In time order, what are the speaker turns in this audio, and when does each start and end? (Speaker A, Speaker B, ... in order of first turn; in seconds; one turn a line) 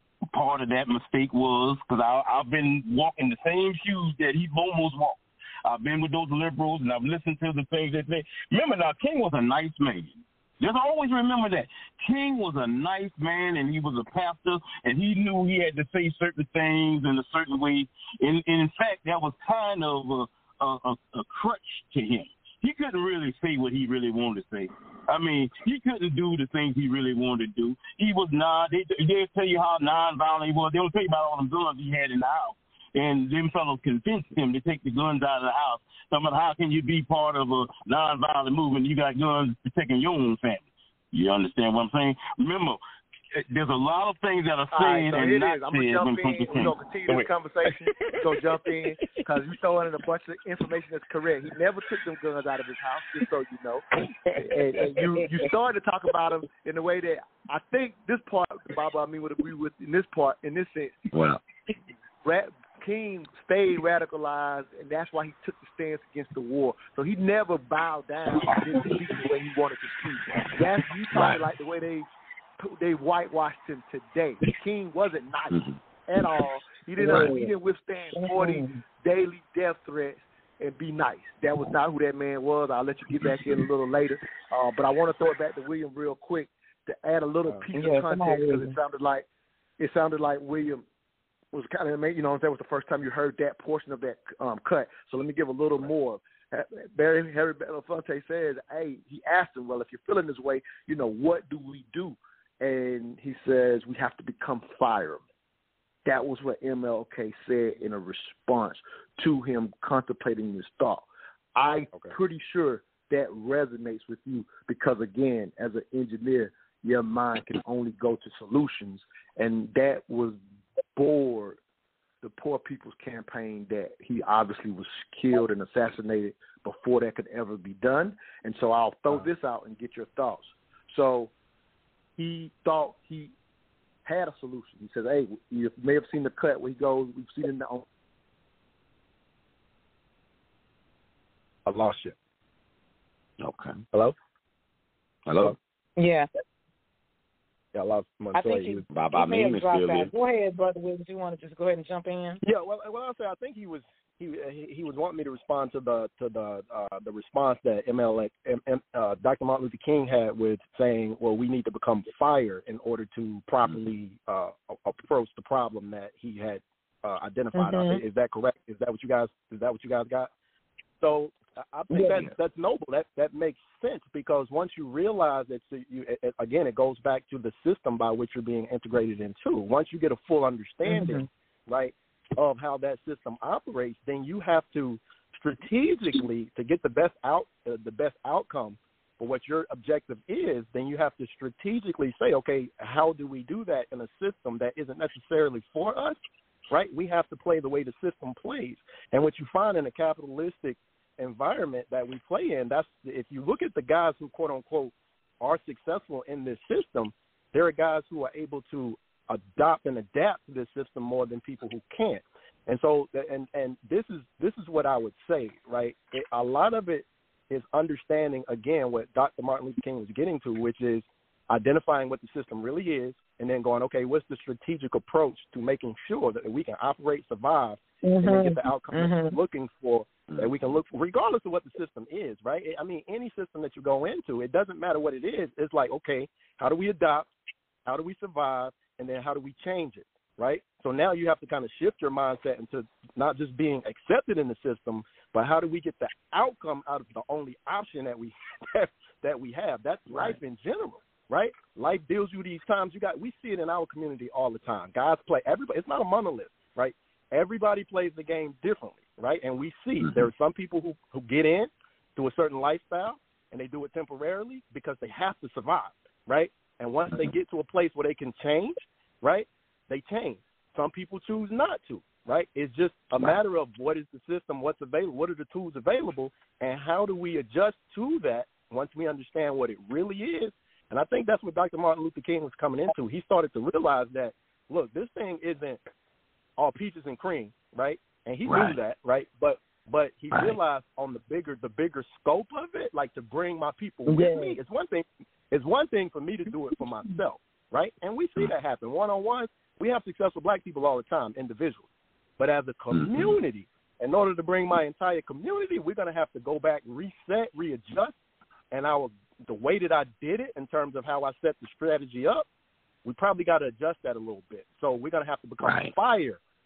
Speaker A: 0.3-42.8
Speaker A: 43.4-47.2
Speaker B: 44.7-53.9
Speaker B: 54.4-61.0
Speaker C: 61.1-61.4
Speaker B: 62.2-89.3
Speaker C: 71.1-71.4
Speaker C: 75.5-75.8
Speaker D: 77.0-77.5
Speaker D: 78.2-78.8
Speaker D: 87.7-88.8
Speaker B: 89.8-90.8
Speaker B: 91.5-105.2
Speaker B: 106.0-120.4
Speaker B: 121.0-121.6
Speaker B: 122.2-131.3
Speaker B: 132.2-133.3
Speaker B: 134.1-137.9
Speaker E: 141.7-142.2
Speaker C: 143.4-143.8
Speaker C: 145.3-145.5
Speaker D: 146.0-146.3
Speaker E: 147.7-148.8
Speaker D: 148.3-152.4
Speaker C: 148.9-150.1
Speaker E: 152.4-170.3
Speaker D: 167.6-168.0
Speaker E: 171.0-196.2
Speaker D: 171.9-172.2
Speaker D: 180.9-181.3
Speaker E: 196.7-237.3
Speaker D: 228.0-229.4
Speaker E: 237.9-285.8
Speaker E: 286.6-301.9
Speaker C: 288.5-288.8
Speaker D: 294.1-294.6
Speaker E: 302.4-308.2
Speaker C: 302.9-303.4
Speaker E: 308.7-312.5
Speaker E: 313.1-316.4
Speaker C: 315.6-315.9